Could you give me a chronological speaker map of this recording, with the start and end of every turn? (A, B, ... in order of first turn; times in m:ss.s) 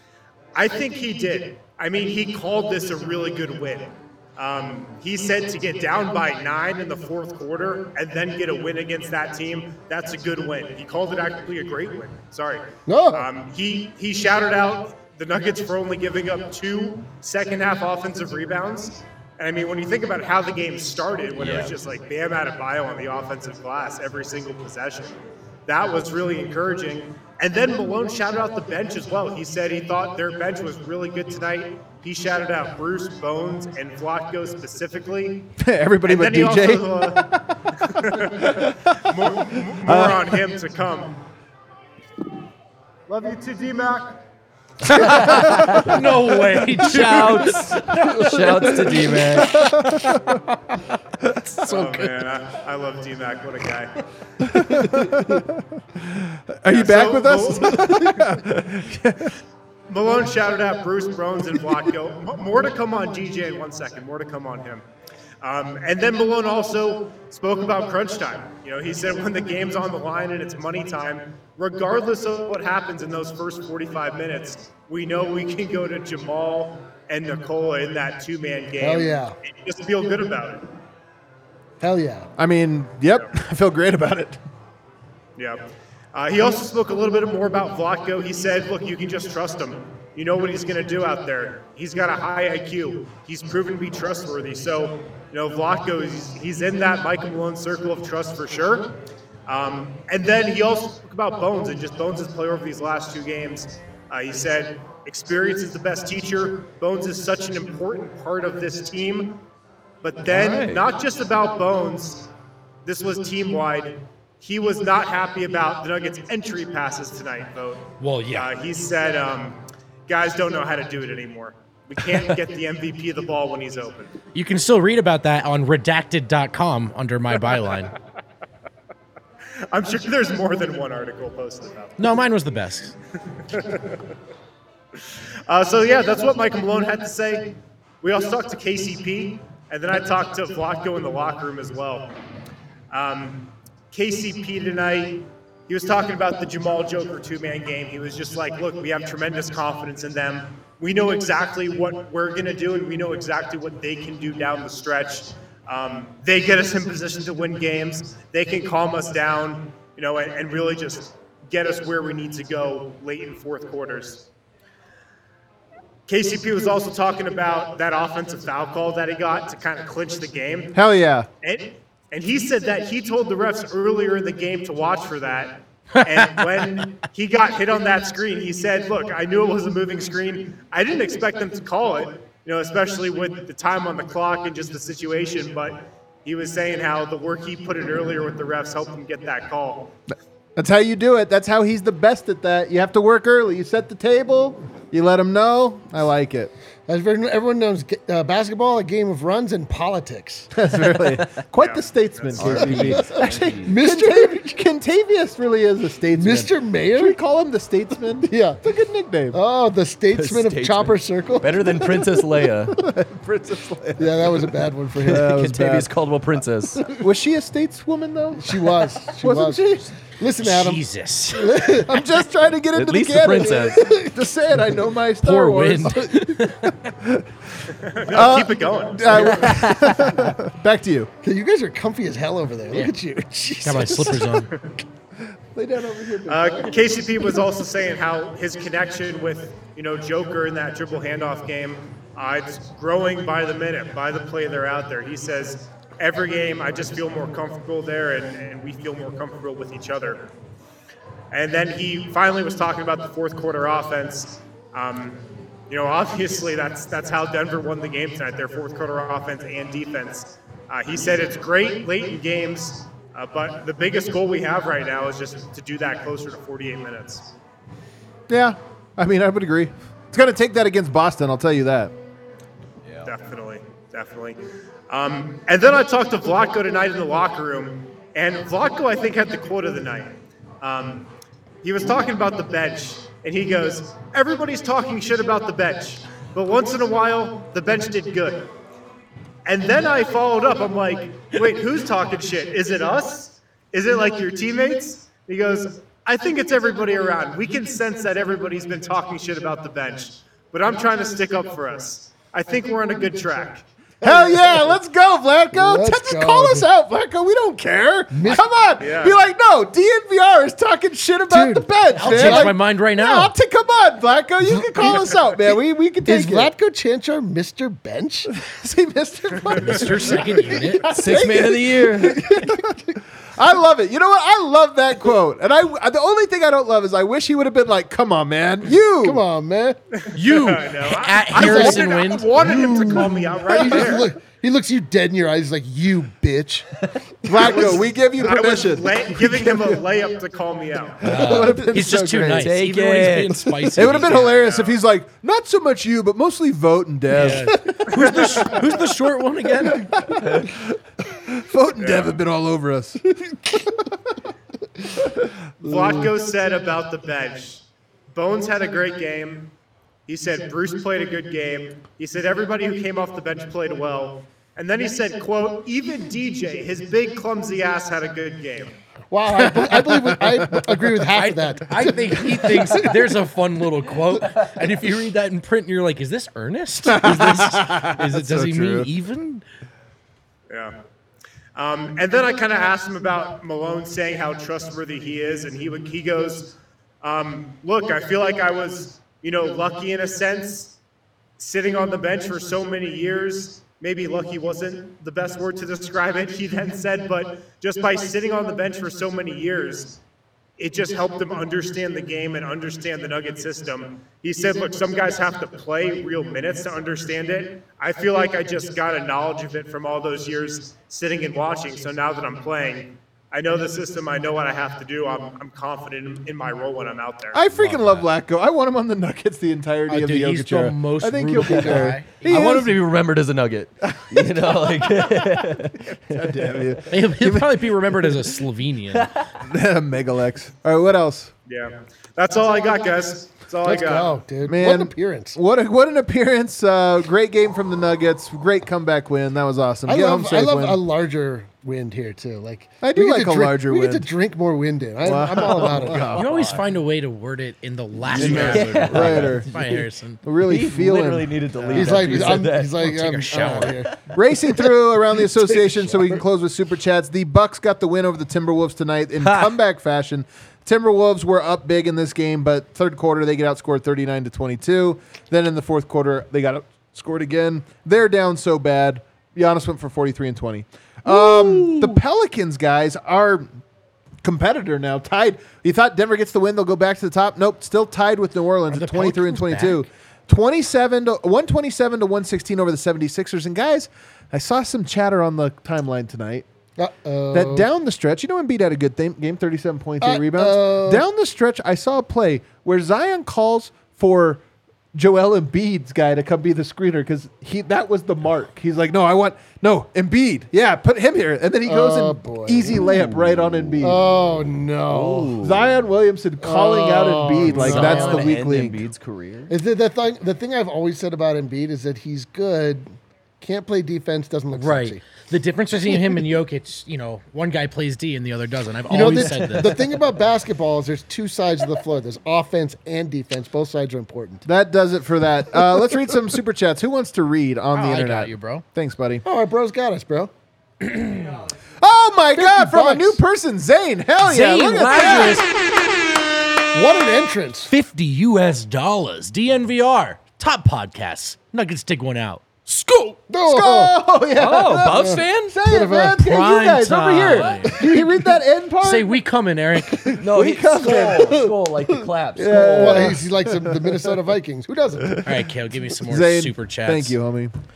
0:00.6-0:35.5 A
0:12.9-0:13.3 B
0:21.4-0:21.7 C
0:35.6-0:39.1 D
0:36.0-0:41.2 A
0:39.8-0:40.3 D
0:43.1-0:44.2 A
0:44.9-0:46.6 D
0:44.9-0:45.9 C
0:45.0-0:48.3 E
0:46.8-0:49.6 C
0:47.9-0:50.4 D
0:49.4-0:52.1 E
0:51.6-0:54.0 A
0:54.4-0:59.4 D
0:56.7-0:58.3 A
0:59.9-1:04.8 A
1:05.4-1:20.7 A
1:18.8-1:19.4 B
1:21.8-1:22.3 B
1:22.4-1:24.4 D
1:25.4-1:39.0 A
1:39.4-1:49.4 A
1:50.0-1:52.3 A
1:50.3-1:50.8 C
1:52.8-2:04.1 A
1:58.0-1:58.5 E
2:04.3-2:07.9 E
2:09.7-2:12.1 A
2:12.0-2:13.0 E
2:13.5-2:14.0 A
2:15.5-2:22.1 A
2:22.9-2:44.3 A
2:46.1-2:50.7 A
2:50.7-2:51.3 D
2:51.4-3:09.9 A
2:56.0-2:56.4 E
3:10.6-3:16.5 D
3:16.9-3:20.5 B
3:20.5-3:29.4 D
3:21.6-3:22.6 A
3:22.4-3:23.7 C
3:22.6-3:24.6 B
3:26.1-3:27.2 B
3:28.2-3:28.6 B
3:29.3-3:32.5 B
3:30.1-3:32.8 C
3:32.8-3:35.9 D
3:34.0-3:35.4 B
3:35.1-3:36.9 C
3:36.9-3:39.9 D
3:38.4-3:42.0 B
3:40.4-3:41.8 E
3:41.7-3:47.3 D
3:42.7-3:43.8 C
3:43.7-3:44.1 B
3:45.2-3:46.8 E
3:47.8-3:49.7 A
3:48.1-3:51.1 D
3:51.2-3:54.4 B
3:53.6-3:54.5 E
3:55.5-3:56.9 D
3:56.3-4:10.3 A
4:11.3-4:27.3 A
4:28.3-4:31.9 D
4:33.0-4:41.1 A
4:41.6-4:48.5 A
4:49.4-5:03.6 A
5:04.0-5:04.3 B
5:04.0-5:16.5 D
5:05.5-5:06.7 B
5:08.1-5:08.5 B
5:08.8-5:09.2 A
5:11.3-5:12.6 B
5:12.0-5:13.3 E
5:14.5-5:15.0 B
5:16.0-5:18.3 B
5:18.3-5:22.8 D
5:19.6-5:20.9 E
5:20.9-5:22.2 C
5:22.3-5:22.6 B
5:23.4-5:29.2 D
5:29.0-5:29.8 B
5:30.0-5:34.1 A
5:30.1-5:32.4 E
5:31.4-5:36.7 B
5:31.4-5:33.1 D
5:37.2-5:39.8 D
5:37.3-5:37.7 B
5:37.4-5:41.0 A
5:41.0-5:42.5 D
5:41.0-5:44.3 E
5:42.4-5:44.1 C
5:43.7-5:48.8 D
5:44.1-5:44.8 A
5:47.1-5:47.4 C
5:47.1-5:50.0 E
5:49.6-5:54.1 D
5:51.8-5:52.2 A
5:55.6-5:59.5 A
6:00.1-6:08.8 A
6:09.1-6:12.9 B
6:09.3-6:10.9 D
6:11.2-6:19.4 E
6:16.8-6:18.9 D
6:20.5-6:20.8 A
6:21.6-6:30.8 A
6:31.4-6:40.0 A
6:40.6-6:57.4 A
6:57.3-7:02.8 D
6:57.5-6:58.1 E
6:59.9-7:02.7 E
7:01.4-7:06.7 C
7:03.9-7:07.8 D
7:06.9-7:09.3 E
7:09.4-7:11.3 D
7:11.5-7:14.1 A
7:13.6-7:15.4 B
7:14.4-7:20.8 D
7:19.9-7:26.2 B
7:22.8-7:24.1 D
7:25.0-7:26.5 D
7:25.4-7:26.6 C
7:26.2-7:30.2 E
7:28.0-7:29.9 C
7:28.1-7:29.5 D
7:30.2-7:31.8 D
7:30.5-7:32.8 C
7:31.7-7:33.8 E
7:31.7-7:34.0 B
7:34.1-7:53.5 D
7:35.2-7:36.2 B
7:39.2-7:39.5 C
7:54.2-8:06.4 D
7:58.7-7:59.9 E
8:06.8-8:07.7 B
8:07.3-8:14.4 D
8:10.0-8:11.0 B
8:14.9-8:24.0 D
8:21.7-8:22.9 B
8:22.9-8:23.7 C
8:23.8-8:25.4 B
8:24.9-8:25.7 C
8:25.4-8:28.8 D
8:26.4-8:28.2 B
8:27.4-8:29.5 C
8:27.6-8:28.3 E
8:29.5-8:35.0 B
8:34.5-8:39.9 E
8:38.9-8:44.5 B
8:44.4-8:49.2 D
8:47.7-8:48.6 E
8:49.2-8:50.3 B
8:50.8-8:51.2 E
8:51.8-8:55.5 D
8:52.3-8:53.2 B
8:54.2-8:55.5 E
8:56.7-8:57.7 B
8:57.7-9:03.2 E
9:03.3-9:04.0 B
9:03.4-9:09.2 D
9:04.4-9:05.6 C
9:04.6-9:06.2 B
9:06.2-9:07.9 E
9:07.4-9:08.1 B
9:08.8-9:10.2 E
9:09.8-9:11.5 D
9:10.2-9:13.2 C
9:10.9-9:11.1 B
9:12.4-9:14.1 D
9:12.7-9:15.2 B
9:15.0-9:15.4 D
9:15.2-9:17.1 E
9:16.0-9:17.5 D